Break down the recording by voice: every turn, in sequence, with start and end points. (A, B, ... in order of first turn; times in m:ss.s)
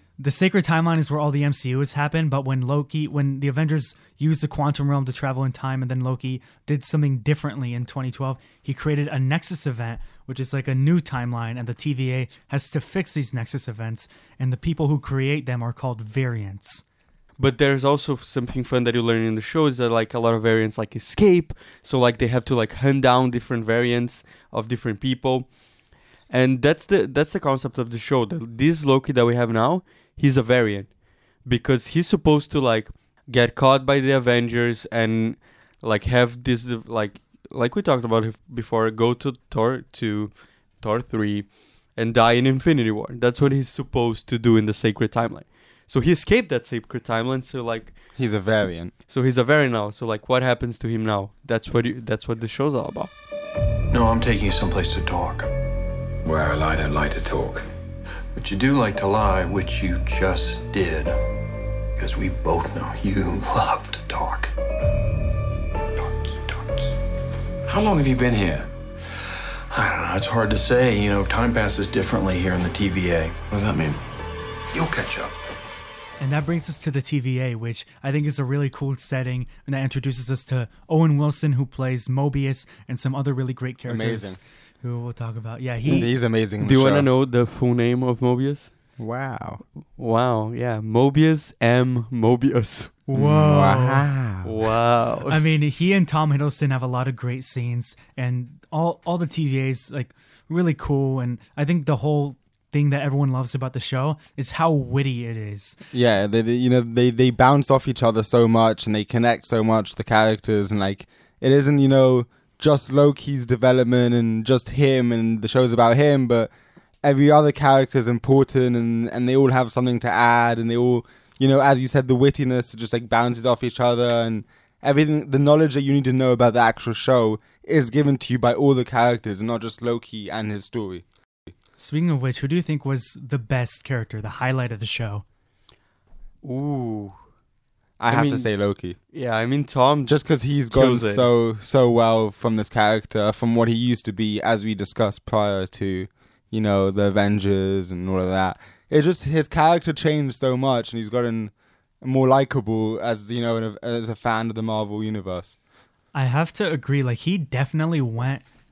0:00.2-0:16.8 A
0:17.4-0:25.5 B
0:26.3-0:48.0 B
0:48.2-0:48.9 C
0:49.1-0:53.1 B
0:53.9-0:55.5 D
0:56.2-0:57.7 E
0:58.3-1:01.2 D
1:02.0-1:04.5 D
1:05.9-1:07.0 D
1:07.6-1:08.7 E
1:09.7-1:14.0 D
1:14.7-1:15.3 D
1:16.2-1:26.1 A
1:23.9-1:24.4 C
1:25.8-1:28.7 B
1:25.9-1:27.1 C
1:29.0-1:29.6 C
1:30.0-1:33.0 B
1:33.1-1:34.1 A
1:33.1-1:34.6 C
1:34.4-1:35.4 B
1:35.3-1:45.8 A
1:45.9-1:56.5 C
1:57.0-2:11.0 C
2:11.8-2:15.2 A
2:16.4-2:17.2 B
2:18.0-2:19.0 C
2:18.1-2:18.5 B
2:19.1-2:21.3 B
2:20.0-2:35.6 C
2:36.1-2:38.4 A